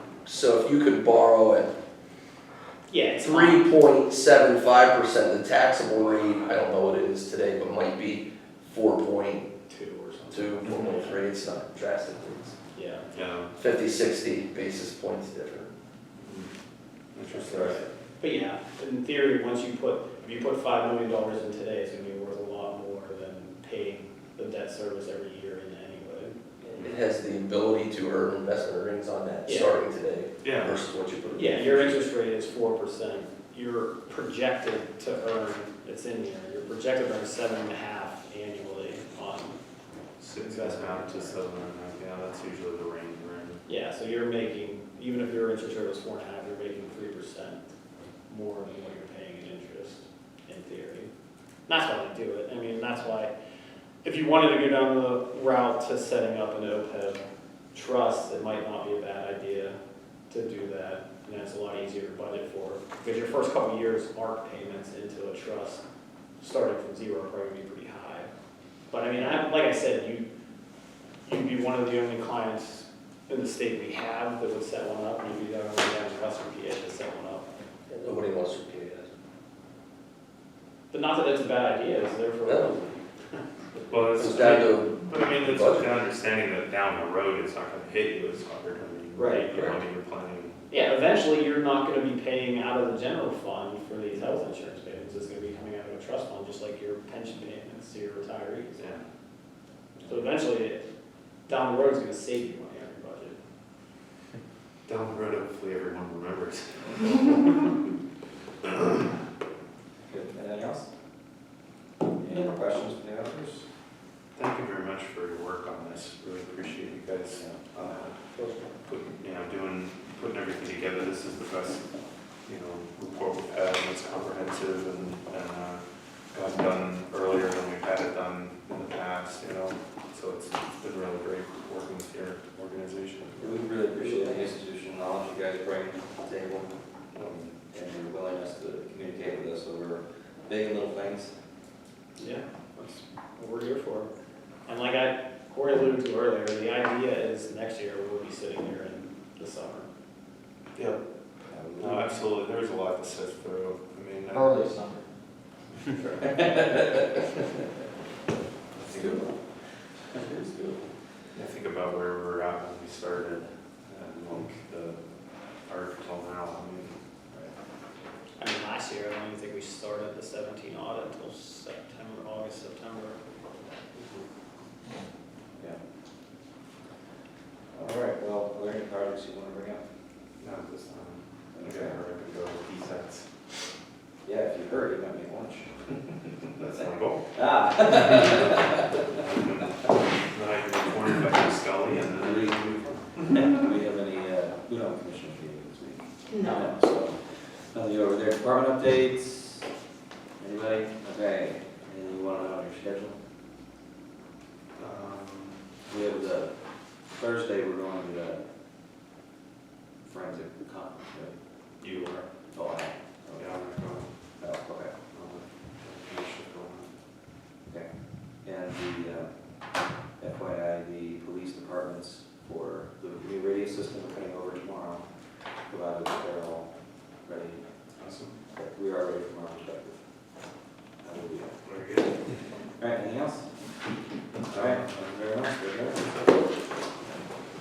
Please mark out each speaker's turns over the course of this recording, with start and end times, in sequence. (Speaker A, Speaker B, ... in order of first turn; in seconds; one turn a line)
Speaker A: 0.2-1.7
Speaker B: 2.9-3.6
Speaker A: 3.2-9.5
Speaker B: 9.7-11.2
Speaker A: 10.3-12.6
Speaker B: 12.7-13.1
Speaker C: 13.1-13.5
Speaker A: 13.6-15.7
Speaker C: 16.2-16.5
Speaker C: 17.1-17.8
Speaker B: 17.3-26.9
Speaker A: 26.7-32.0
Speaker B: 29.4-29.7
Speaker C: 30.4-30.8
Speaker B: 31.3-39.6
Speaker C: 40.2-43.6
Speaker B: 40.4-41.4
Speaker B: 43.6-47.6
Speaker B: 48.3-51.1
Speaker B: 51.7-53.3
Speaker B: 54.0-57.2
Speaker B: 57.7-59.8
Speaker B: 60.3-65.8
Speaker B: 66.4-68.3
Speaker B: 68.9-70.3
Speaker B: 71.2-77.5
Speaker A: 77.9-79.1
Speaker B: 80.9-83.4
Speaker C: 83.9-90.5
Speaker A: 84.2-85.9
Speaker D: 89.2-89.5
Speaker A: 89.5-89.8
Speaker B: 90.7-98.8
Speaker C: 98.8-99.0
Speaker C: 99.9-100.2
Speaker B: 100.0-100.8
Speaker B: 101.5-103.4
Speaker C: 104.8-107.7
Speaker D: 110.0-110.9
Speaker D: 112.2-113.7
Speaker C: 114.3-118.2
Speaker D: 117.4-118.0
Speaker C: 118.8-121.9
Speaker C: 122.4-133.6
Speaker D: 133.4-136.7
Speaker C: 137.1-137.5
Speaker D: 137.2-141.3
Speaker B: 142.2-144.1
Speaker B: 144.7-149.9
Speaker C: 150.7-151.0
Speaker D: 151.5-152.0
Speaker C: 151.8-154.8
Speaker C: 155.8-157.1
Speaker D: 156.2-157.4
Speaker C: 158.7-159.2
Speaker D: 158.9-159.3
Speaker A: 160.2-160.8
Speaker C: 161.3-163.5
Speaker D: 163.9-164.5
Speaker C: 164.1-165.0
Speaker C: 165.6-167.0
Speaker B: 168.4-173.2
Speaker D: 177.7-179.8
Speaker C: 180.4-183.6
Speaker D: 181.5-182.0
Speaker D: 184.2-186.4
Speaker C: 186.5-193.2
Speaker D: 187.3-188.8
Speaker D: 192.2-199.7
Speaker D: 200.4-203.2
Speaker C: 204.8-205.6
Speaker D: 205.9-208.4
Speaker D: 210.0-215.0
Speaker C: 211.8-212.2
Speaker C: 213.3-214.5
Speaker C: 215.1-216.9
Speaker D: 217.6-225.1
Speaker D: 225.6-227.8
Speaker C: 228.0-228.3
Speaker D: 228.5-230.0
Speaker D: 231.0-231.6
Speaker C: 231.6-232.2
Speaker D: 232.8-233.6
Speaker C: 234.4-235.1
Speaker D: 234.5-236.1